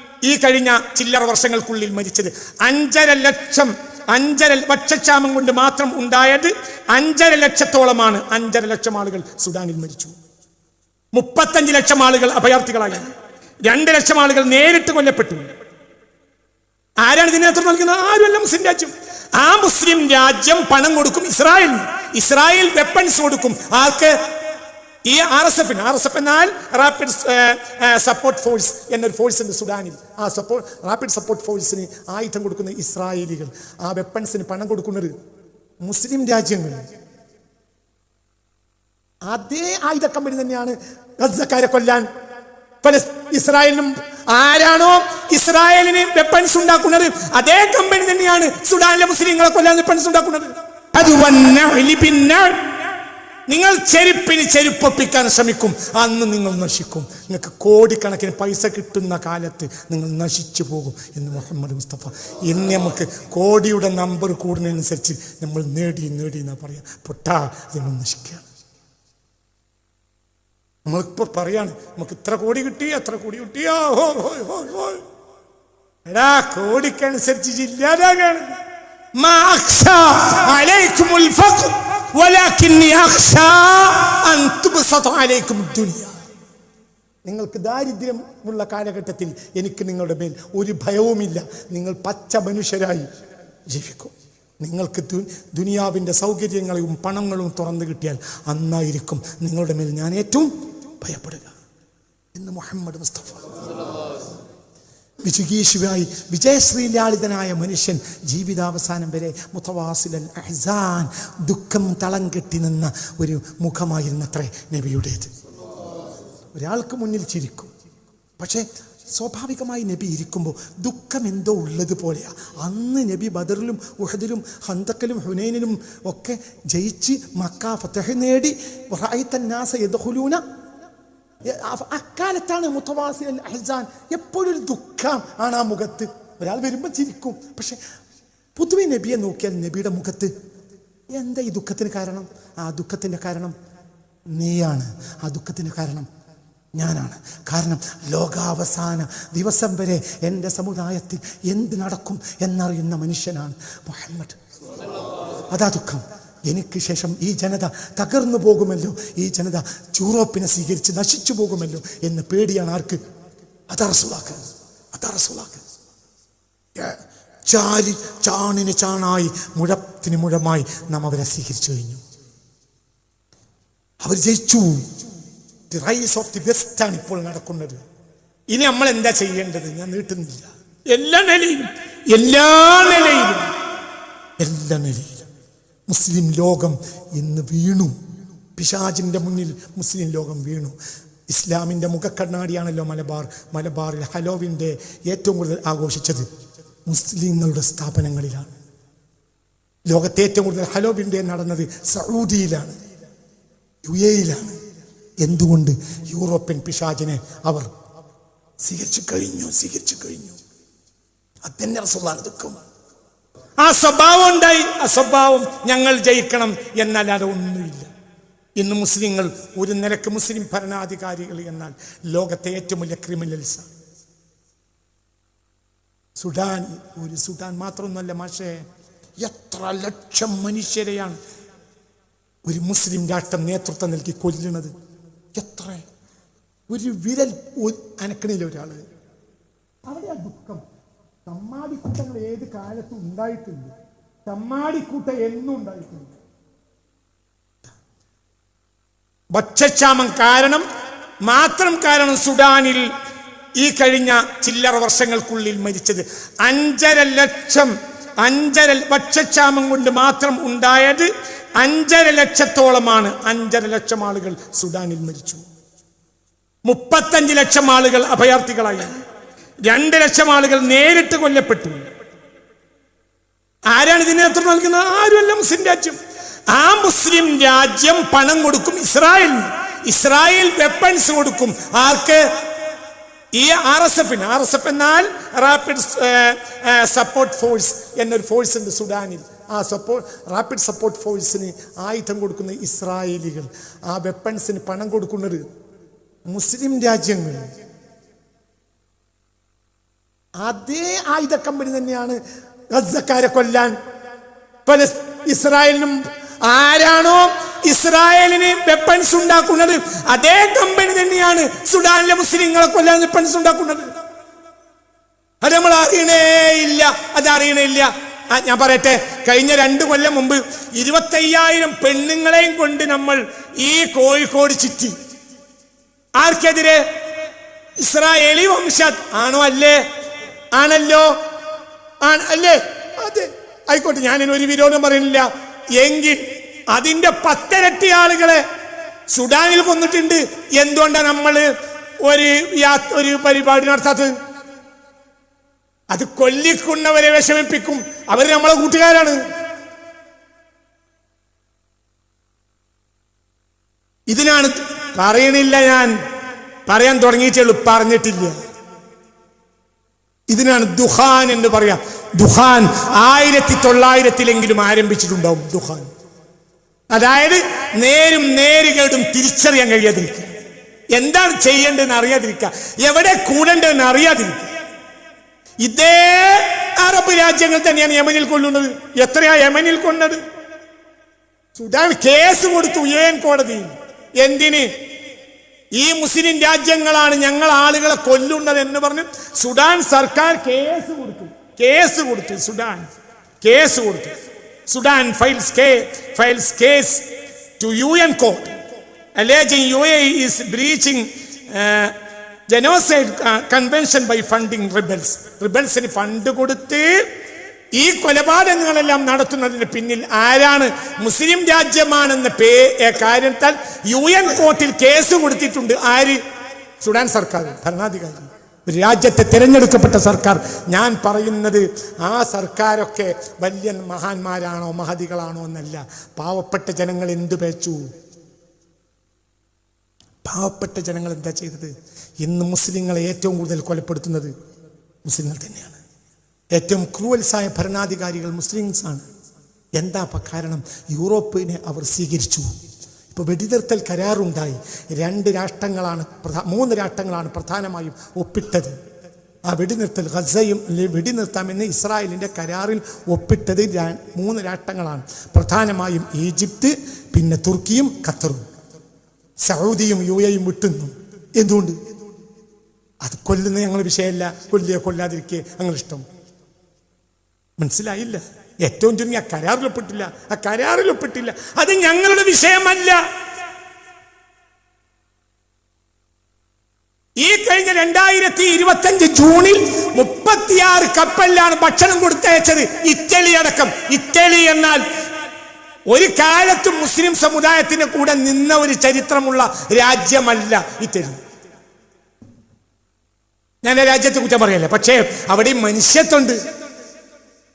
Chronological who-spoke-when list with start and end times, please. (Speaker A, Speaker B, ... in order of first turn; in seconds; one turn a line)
Speaker A: 0.2-10.2
Speaker A: 11.1-13.1
Speaker A: 13.6-15.5
Speaker A: 17.0-24.2
Speaker A: 25.1-35.1
Speaker A: 35.8-36.9
Speaker A: 39.3-42.1
Speaker A: 42.8-52.7
Speaker A: 53.5-68.5
Speaker A: 70.9-75.0
Speaker A: 76.1-78.6
Speaker A: 79.2-86.2
Speaker A: 87.2-93.1
Speaker A: 93.7-101.6
Speaker A: 102.3-103.5
Speaker A: 105.2-115.3
Speaker A: 116.5-117.7
Speaker A: 118.4-130.4
Speaker A: 131.4-137.8
Speaker A: 138.6-140.3
Speaker A: 141.1-143.6
Speaker A: 144.3-146.1
Speaker A: 146.8-154.4
Speaker A: 155.5-163.0
Speaker A: 163.7-165.6
Speaker A: 166.8-172.0
Speaker A: 174.0-175.0
Speaker A: 175.7-177.8
Speaker A: 178.5-183.5
Speaker A: 184.4-185.3
Speaker A: 185.9-188.0
Speaker A: 188.6-190.8
Speaker A: 191.3-196.3
Speaker A: 196.9-198.6
Speaker A: 199.9-202.8
Speaker A: 203.8-204.6
Speaker A: 205.2-207.7
Speaker A: 208.6-210.4
Speaker A: 211.4-212.6
Speaker A: 213.6-217.9
Speaker A: 218.6-223.7
Speaker A: 226.2-228.7
Speaker A: 229.2-231.2
Speaker A: 232.4-234.7
Speaker A: 235.3-235.9
Speaker A: 236.7-238.8
Speaker A: 239.8-240.6
Speaker A: 241.3-246.2
Speaker A: 249.3-250.7
Speaker A: 251.2-252.9
Speaker A: 253.6-265.4
Speaker A: 266.6-268.9
Speaker A: 269.6-271.9
Speaker A: 273.7-282.3
Speaker A: 283.3-295.5
Speaker A: 296.3-297.5
Speaker A: 300.4-302.2
Speaker A: 302.7-303.8
Speaker A: 304.7-313.9
Speaker A: 315.4-325.0
Speaker A: 326.2-326.9
Speaker A: 327.8-329.9
Speaker A: 330.6-331.2
Speaker A: 332.0-338.4
Speaker A: 339.1-341.5
Speaker A: 342.0-344.1
Speaker A: 345.9-349.2
Speaker A: 354.1-356.0
Speaker A: 356.7-358.4
Speaker A: 360.3-365.9
Speaker A: 366.9-370.4
Speaker A: 370.9-374.5
Speaker A: 375.6-380.2
Speaker A: 381.6-384.7
Speaker A: 385.8-392.9
Speaker A: 393.4-394.1
Speaker A: 394.7-398.6
Speaker A: 399.1-402.0
Speaker A: 402.5-407.1
Speaker A: 407.7-416.2
Speaker A: 416.8-427.9
Speaker A: 430.2-434.3
Speaker A: 435.1-435.8
Speaker A: 436.6-439.1
Speaker A: 439.8-442.5
Speaker A: 443.1-448.8
Speaker A: 449.5-458.5
Speaker A: 459.4-461.8
Speaker A: 463.0-466.1
Speaker A: 467.6-473.0
Speaker A: 477.2-484.9
Speaker A: 485.9-491.2
Speaker A: 493.6-496.4